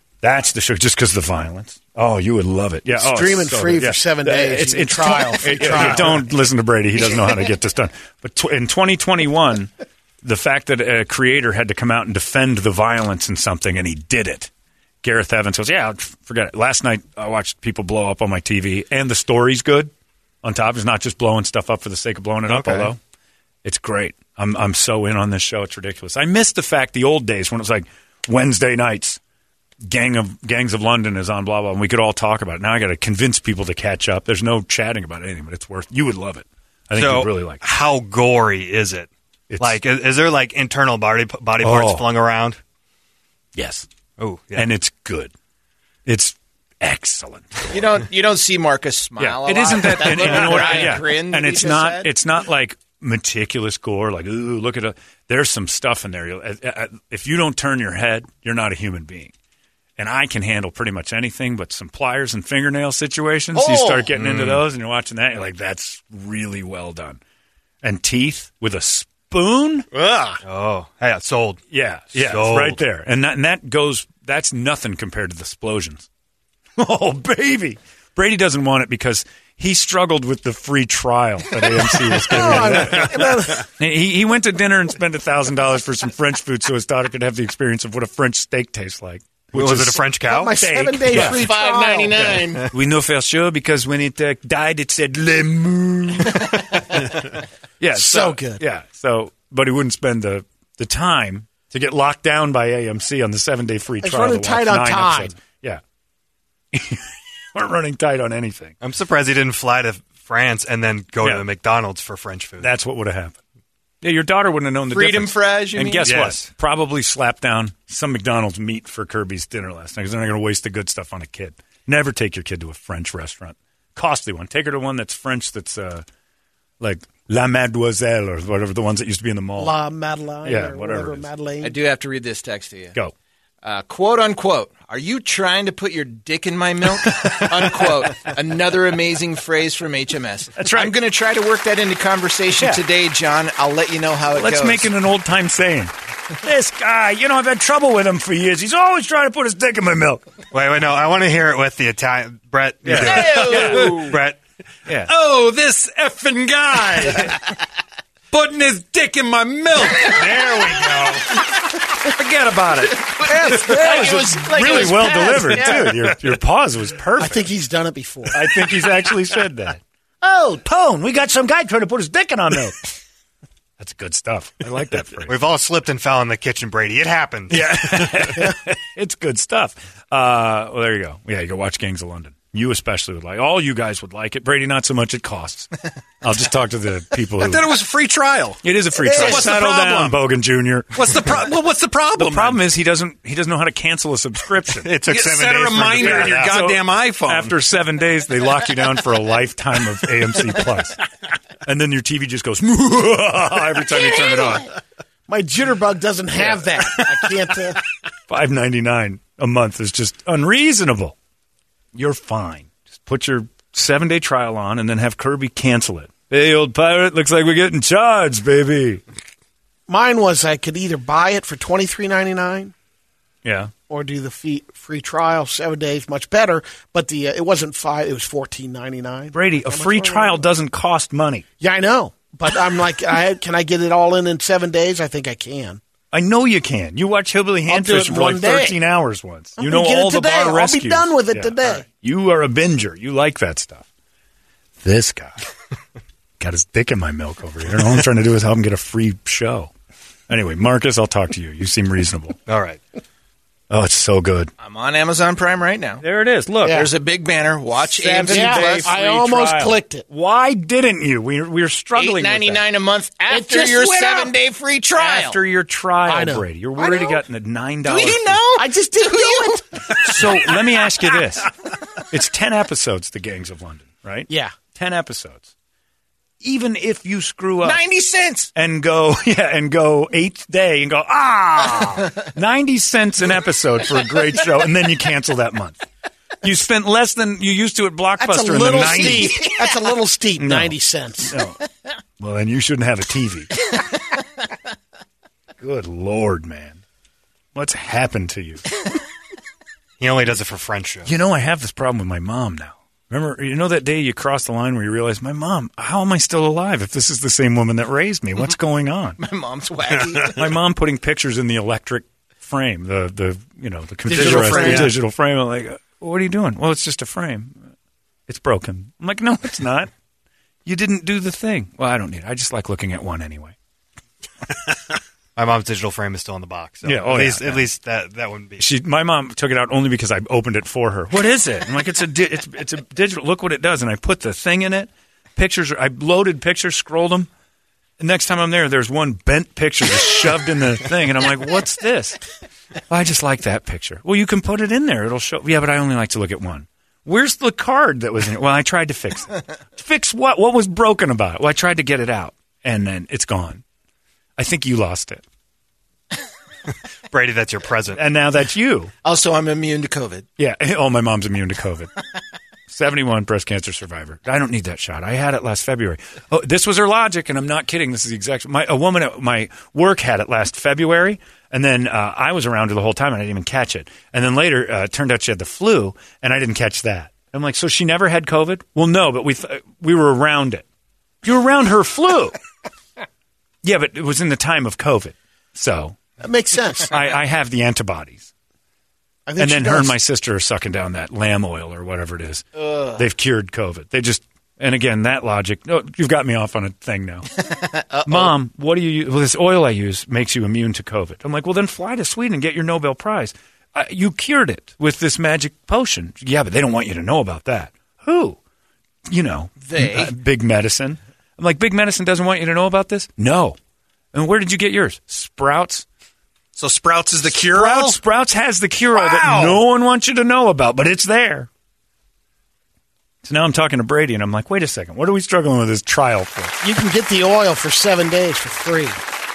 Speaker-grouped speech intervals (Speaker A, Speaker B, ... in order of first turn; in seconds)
Speaker A: 0.2-9.7, 10.2-14.5, 15.0-19.9, 20.4-23.0, 23.6-29.2, 29.9-37.6, 39.5-39.8, 41.6-42.1, 43.5-43.9, 44.5-45.3, 46.0-47.8, 49.2-59.3, 60.0-67.2, 67.8-69.9, 71.7-76.1, 76.8-91.4, 92.1-97.2, 97.8-105.8, 106.7-108.7, 112.6-113.3, 114.0-126.0, 126.8-129.8, 130.4-131.3, 140.6-141.0, 142.6-142.8, 144.3-150.2, 152.8-154.1, 154.9-155.1, 162.0-167.5, 168.3-169.8, 170.4-173.0, 173.8-175.3, 177.5-187.7, 188.6-191.3, 192.2-194.9, 196.0-201.0, 201.7-204.7, 206.4-207.1, 208.3-211.2, 211.9-219.0, 223.4-223.7, 229.3-231.4, 236.1-243.8, 244.8-245.4, 246.4-249.7, 250.3-252.4, 253.7-254.5, 256.0-256.8, 257.7-262.7, 264.9-268.4, 270.0-271.5, 272.1-275.5, 276.4-277.8, 278.6-285.9, 286.4-289.5, 290.4-291.6, 292.2-293.5, 295.6-296.8, 297.5-298.8, 301.1-309.2, 310.3-317.7, 318.3-319.9, 320.7-323.6, 326.8-327.6, 328.6-337.3, 338.0-342.2, 342.9-353.6, 354.4-355.2, 357.9-358.9, 360.4-361.9, 362.7-380.7, 381.2-382.4, 383.6-386.0, 386.9-388.3, 389.4-397.4, 398.0-408.4, 409.1-413.6, 414.1-415.9, 417.2-421.5, 423.2-426.6
Speaker B: 2.9-6.3, 50.2-50.9, 82.2-83.7, 90.2-92.4, 97.9-98.6, 104.0-105.4, 129.6-131.8, 163.3-163.8, 167.2-168.4, 205.3-207.9, 219.9-222.7, 223.9-230.5, 231.6-235.8, 237.7-238.8, 239.6-241.8, 256.6-256.9, 258.3-260.1, 263.3-264.3, 266.1-267.1, 268.6-270.4, 274.3-274.6, 288.2-291.4, 314.1-314.9, 386.2-386.9, 389.3-389.9, 426.6-429.0
Speaker C: 22.5-22.9, 36.9-42.6, 44.2-44.7, 64.1-64.6, 70.4-71.6, 72.1-72.8, 89.5-90.5, 91.1-91.4, 108.8-112.7, 116.0-116.5, 150.5-154.4, 160.4-160.7, 175.3-178.2, 194.8-196.6, 252.5-252.8, 300.0-301.1, 325.4-328.7, 357.1-358.0
Speaker D: 47.7-52.1, 91.2-92.7, 114.9-116.3, 131.6-133.0, 133.6-144.9, 152.9-154.1, 162.9-166.2, 254.6-256.0, 256.7-258.9, 261.9-265.4, 266.8-267.2, 267.9-270.9, 277.6-278.5, 309.2-310.4, 314.3-314.8, 359.0-360.2, 409.6-410.1, 418.9-419.6
Speaker E: 70.0-70.4, 154.9-157.4, 158.3-161.4, 187.4-190.2, 190.9-192.6, 195.1-197.6, 309.9-310.4, 314.1-314.9, 416.6-418.0